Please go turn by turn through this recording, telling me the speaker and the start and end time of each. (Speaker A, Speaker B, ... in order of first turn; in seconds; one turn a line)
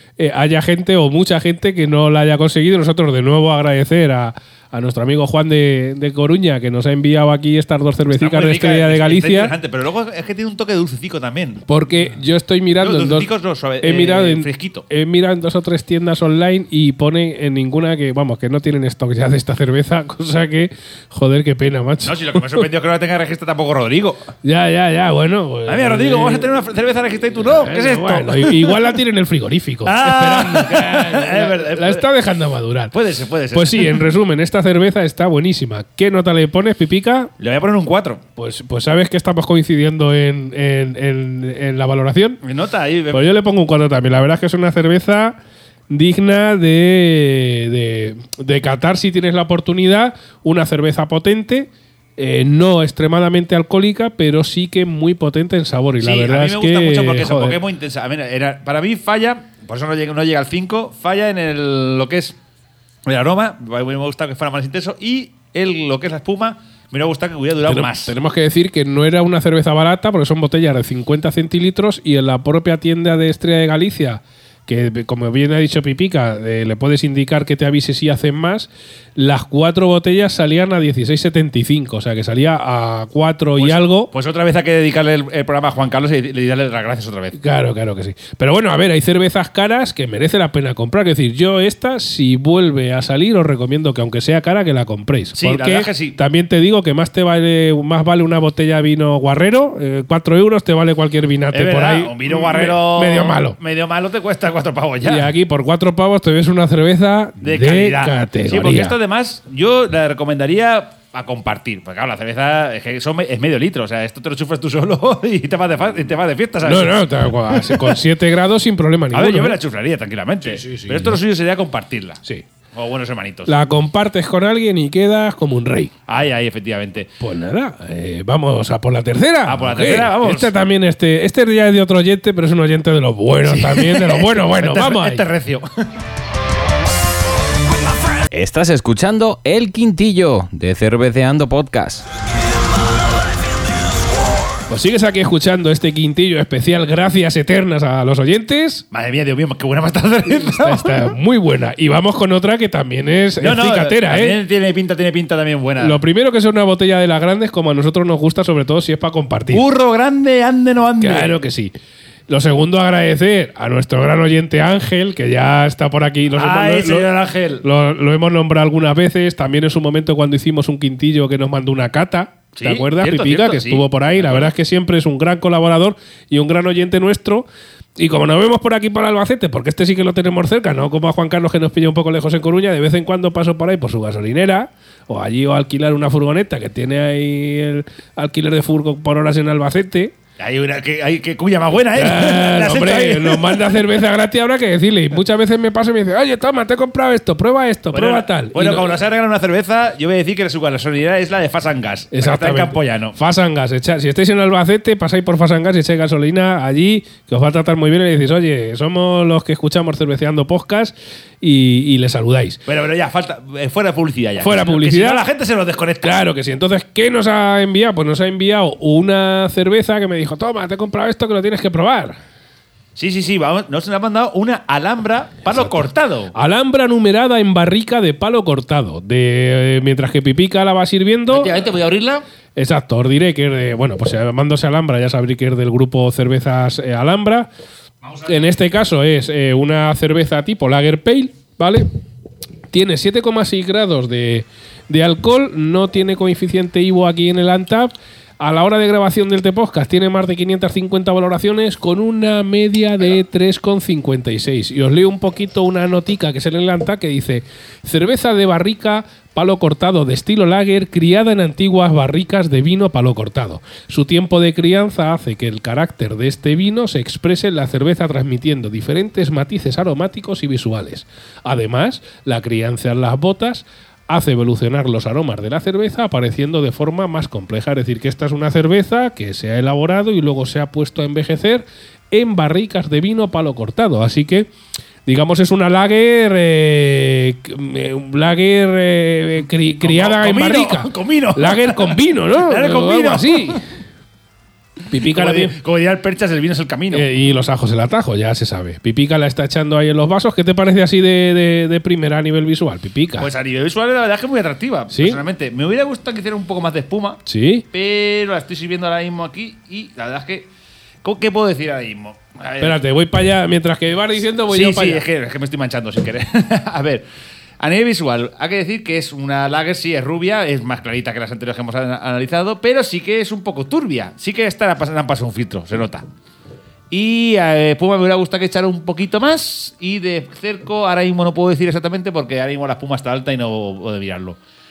Speaker A: 0.2-9.5
Speaker B: 8.1-11.7
Speaker A: 11.7-13.3
Speaker B: 12.8-14.9
Speaker A: 13.8-22.6
Speaker B: 22.0-24.3
Speaker A: 24.4-26.5
Speaker B: 25.6-28.8
Speaker A: 27.4-32.9
Speaker B: 29.8-32.1
Speaker B: 32.9-34.1
Speaker A: 33.5-37.3
Speaker B: 37.4-38.2
Speaker A: 38.4-42.4
Speaker B: 42.4-43.3
Speaker A: 43.1-45.4
Speaker A: 45.9-57.6
Speaker B: 56.0-62.4
Speaker B: 63.0-68.1
Speaker A: 67.7-84.1
Speaker B: 83.6-87.4
Speaker A: 87.3-103.6
Speaker B: 95.3-96.2
Speaker B: 101.5-105.3
Speaker A: 105.0-109.0
Speaker B: 107.4-118.0
Speaker A: 116.6-119.6
Speaker B: 119.1-122.2
Speaker A: 120.4-121.2
Speaker B: 122.7-123.5
Speaker A: 123.5-125.9
Speaker B: 126.1-127.1
Speaker A: 127.2-135.2
Speaker B: 129.4-130.5
Speaker B: 133.4-135.9
Speaker C: 138.3-142.1
Speaker A: 144.7-148.8
Speaker B: 148.9-151.1
Speaker A: 150.3-154.4
Speaker B: 153.4-156.0
Speaker A: 155.8-159.6
Speaker B: 159.5-161.3
Speaker A: 161.0-161.7
Speaker A: 162.3-167.1
Speaker B: 166.3-167.6
Speaker A: 167.6-190.1
Speaker B: 172.5-174.5
Speaker B: 190.4-193.7
Speaker A: 191.9-199.0
Speaker B: 197.9-203.2
Speaker A: 202.1-212.6
Speaker B: 212.7-216.2
Speaker A: 214.4-215.2
Speaker A: 216.0-222.2
Speaker B: 222.9-226.3
Speaker A: 225.5-225.8
Speaker A: 226.3-231.6
Speaker B: 231.3-232.2
Speaker A: 232.6-237.5
Speaker B: 238.0-238.4
Speaker A: 238.3-241.9
Speaker A: 242.7-284.5
Speaker A: 285.1-293.6
Speaker B: 289.8-293.6
Speaker A: 294.9-295.5
Speaker B: 295.0-297.1
Speaker A: 296.9-303.3
Speaker B: 303.2-307.2
Speaker A: 304.9-305.2
Speaker A: 307.3-307.6
Speaker B: 307.7-310.5
Speaker B: 311.0-312.8
Speaker A: 312.6-315.0
Speaker B: 314.5-317.0
Speaker B: 317.6-326.0
Speaker B: 326.9-334.4